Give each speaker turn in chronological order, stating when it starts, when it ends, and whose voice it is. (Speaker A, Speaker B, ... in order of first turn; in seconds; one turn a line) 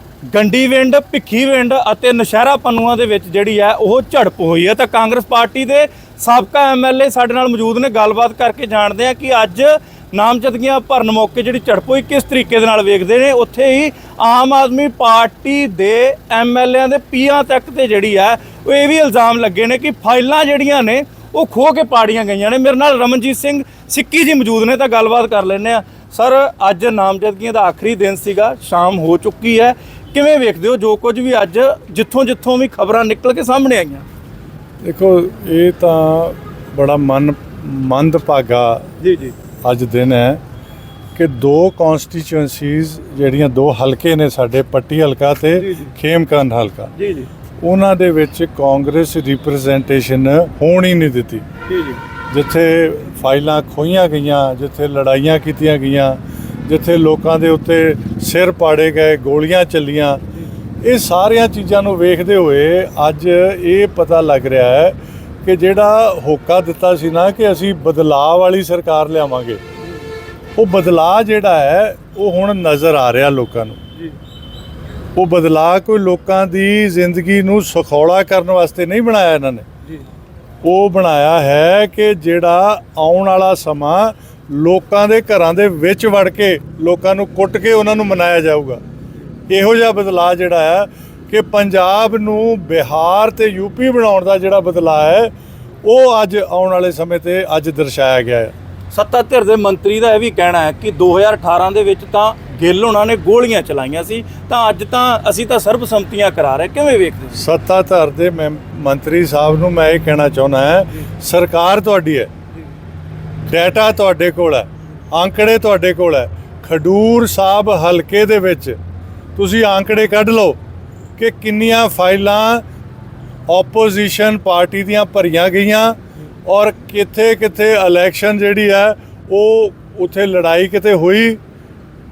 Speaker A: 0.3-34.1
Speaker B: 34.8-38.9
Speaker A: 39.0-39.3
Speaker B: 39.6-40.4
Speaker B: 41.1-46.9
Speaker A: 45.6-45.9
Speaker A: 47.0-47.3
Speaker B: 47.6-51.5
Speaker A: 51.7-52.0
Speaker B: 52.3-60.2
Speaker B: 60.8-69.6
Speaker B: 70.6-73.8
Speaker B: 75.2-79.7
Speaker B: 80.6-88.8
Speaker B: 89.5-95.3
Speaker B: 95.8-98.5
Speaker A: 98.9-107.4
Speaker B: 107.3-112.3
Speaker B: 113.5-118.8
Speaker B: 119.4-120.6
Speaker B: 121.2-122.7
Speaker B: 123.5-131.4